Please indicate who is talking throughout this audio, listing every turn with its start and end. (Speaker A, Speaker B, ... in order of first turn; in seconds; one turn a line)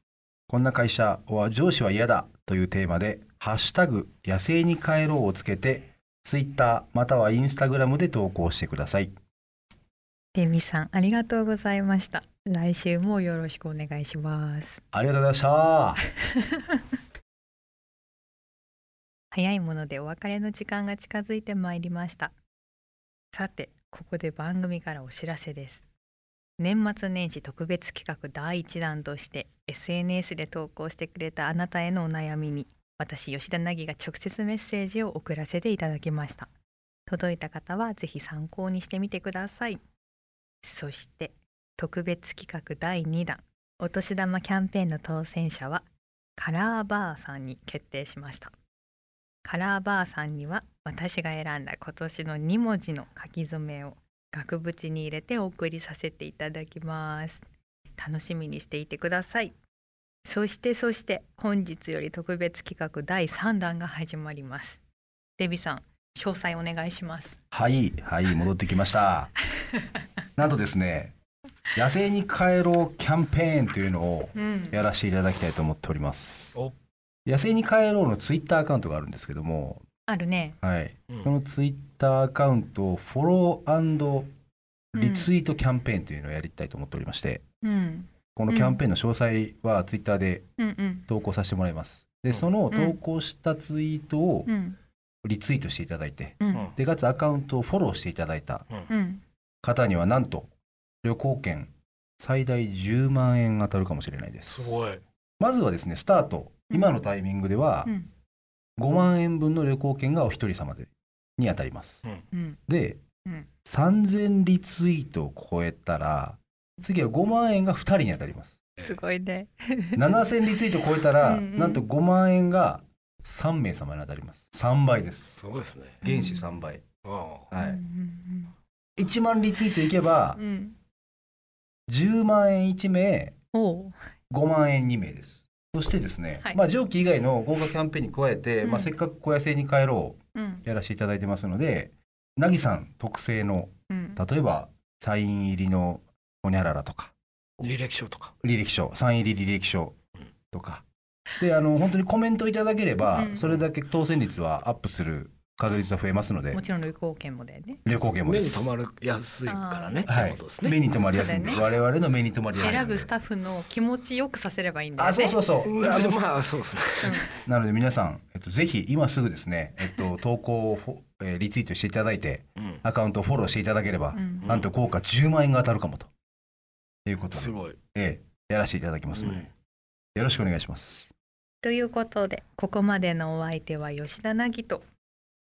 Speaker A: 0.5-9.1
Speaker B: 10.3-14.8
Speaker A: 14.9-16.0
Speaker B: 16.3-16.8
Speaker B: 19.3-22.3
Speaker B: 23.3-25.9
Speaker B: 26.6-36.5
Speaker B: 37.1-39.8
Speaker B: 40.6-45.9
Speaker B: 46.4-48.5
Speaker B: 49.4-57.5
Speaker B: 58.0-59.5
Speaker B: 60.2-64.8
Speaker B: 65.4-67.4
Speaker A: 67.5-69.3
Speaker A: 70.4-71.1
Speaker A: 71.8-76.6
Speaker B: 74.3-74.8
Speaker A: 77.2-79.8
Speaker B: 80.1-80.6
Speaker A: 80.6-84.3
Speaker A: 84.9-87.4
Speaker B: 84.9-85.3
Speaker B: 87.6-88.8
Speaker A: 88.3-90.5
Speaker B: 90.6-91.0
Speaker A: 91.1-94.5
Speaker B: 92.7-93.0
Speaker B: 94.5-94.8
Speaker A: 95.2-98.7
Speaker B: 96.4-96.7
Speaker B: 98.9-99.2
Speaker A: 99.6-100.5
Speaker A: 101.0-104.8
Speaker C: 104.5-105.0
Speaker A: 105.4-107.9
Speaker B: 106.7-107.0
Speaker A: 108.8-112.0
Speaker B: 112.3-112.6
Speaker A: 112.7-113.0
Speaker A: 113.6-118.6
Speaker B: 118.8-120.0
Speaker A: 120.0-125.3
Speaker B: 121.2-121.8
Speaker C: 125.3-126.0
Speaker B: 126.0-126.5
Speaker A: 126.0-126.8
Speaker C: 127.0-127.5
Speaker A: 127.5-127.8
Speaker B: 127.6-128.5
Speaker A: 129.0-130.4
Speaker B: 130.3-130.8
Speaker A: 131.9-133.3
Speaker B: 133.5-133.9
Speaker A: 134.3-147.1
Speaker B: 138.6-138.9
Speaker B: 140.3-140.6
Speaker B: 143.9-144.2
Speaker C: 147.6-148.3
Speaker A: 148.4-149.9
Speaker A: 150.5-150.8
Speaker A: 151.4-156.6
Speaker B: 153.1-153.4
Speaker B: 156.5-157.8
Speaker A: 157.8-158.7
Speaker C: 158.2-160.8
Speaker B: 159.4-160.1
Speaker A: 160.1-163.1
Speaker B: 160.9-161.6
Speaker B: 162.6-165.4
Speaker A: 165.0-166.2
Speaker C: 165.6-167.3
Speaker B: 167.0-167.3
Speaker A: 167.3-176.1
Speaker B: 174.1-174.5
Speaker C: 174.4-174.7
Speaker A: 177.1-179.5
Speaker C: 177.3-177.8
Speaker C: 179.1-179.5
Speaker A: 180.2-181.1
Speaker B: 181.6-184.8